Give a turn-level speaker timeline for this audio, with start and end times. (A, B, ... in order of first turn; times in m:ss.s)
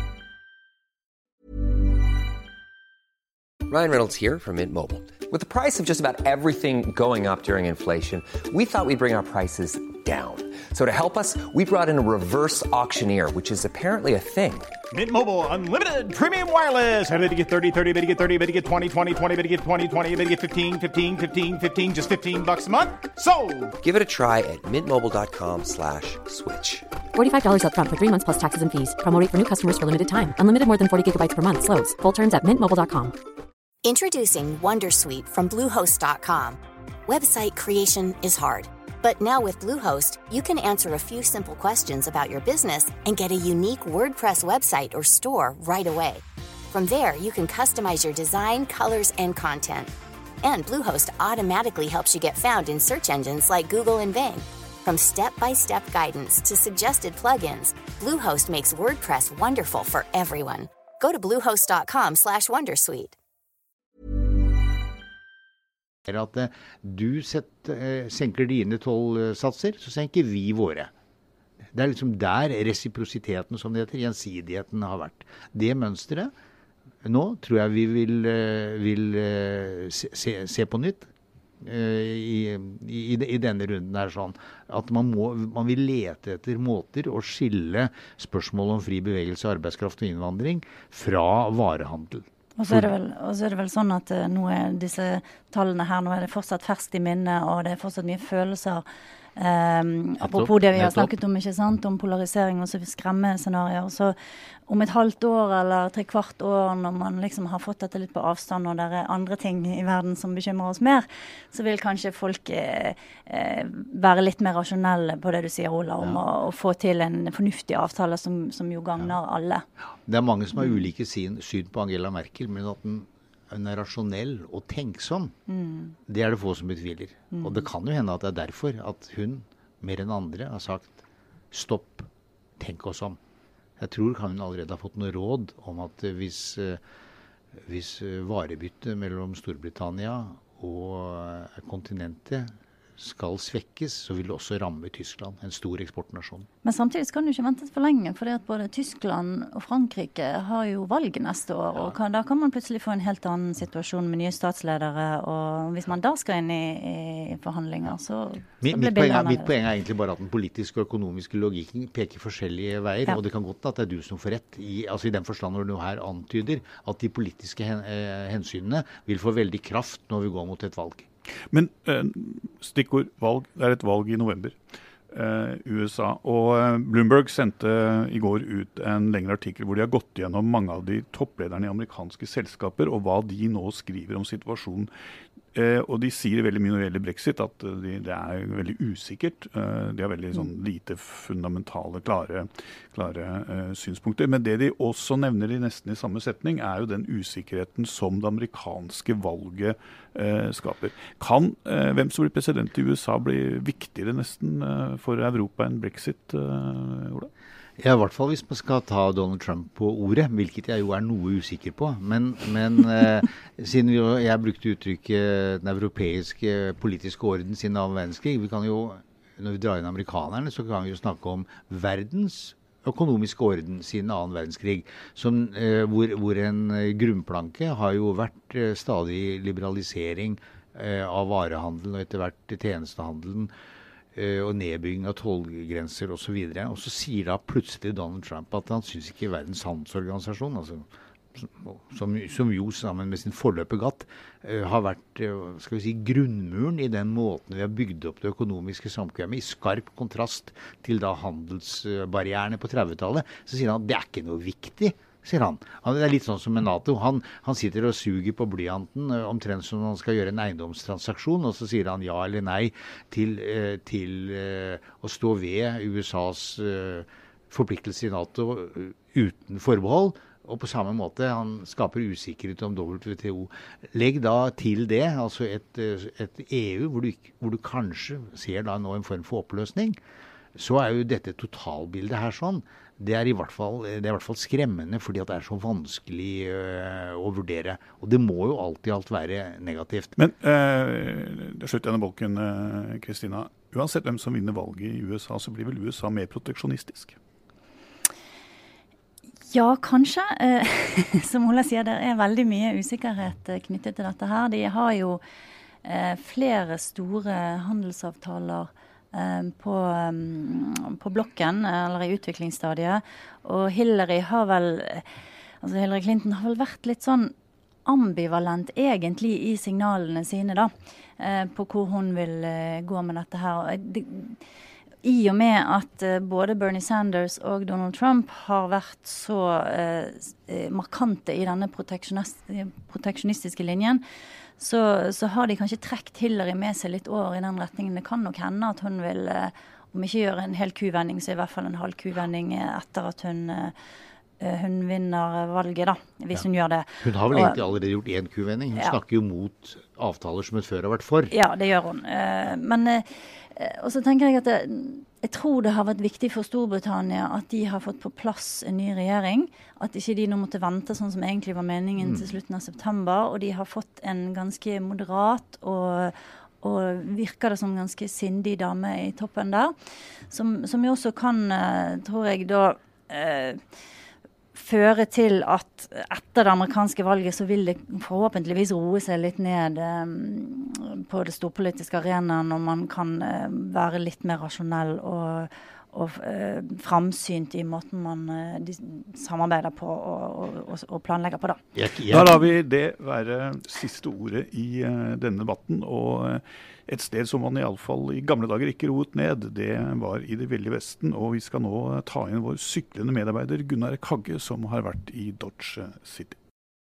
0:03.7-0:14.7 A
0:14.9-0:23.7 B
0:23.8-0:26.8 A
0:27.1-0:33.1 C
0:33.8-0:49.9 D
0:50.4-1:03.2 D
1:06.0-1:10.9 E
1:11.7-1:16.3 E
1:17.0-1:32.9 E
1:32.6-1:38.8 F
1:39.4-1:44.1 F
1:40.2-1:41.1 E
1:44.7-1:59.6 F
2:00.1-2:05.4 E
2:05.5-2:06.0 F
2:06.1-2:11.0 E
2:07.3-2:07.6 F
2:11.5-2:13.2 E
2:13.8-2:16.8 E
2:17.6-2:26.5 E
2:26.6-2:39.5 F
2:38.6-2:51.1 E
2:51.5-2:54.6 G
2:55.1-3:04.9 G
3:05.5-3:27.3 G
3:27.8-3:53.5 E
3:54.1-4:40.0 E
4:40.5-4:50.1 E
4:50.2-4:57.2 G
4:59.5-5:05.2 F
5:05.8-5:15.0 F
5:15.6-5:17.3 F
5:17.8-5:24.4 F
5:25.0-5:34.0 F
5:34.6-5:43.7 F
5:44.4-5:47.6 F
5:47.0-5:51.3 E
5:51.3-6:09.7 F
6:02.0-6:02.2 E
6:10.3-6:13.6 F
6:14.5-6:31.6 F
6:31.7-6:32.4 E
6:32.1-6:46.4 G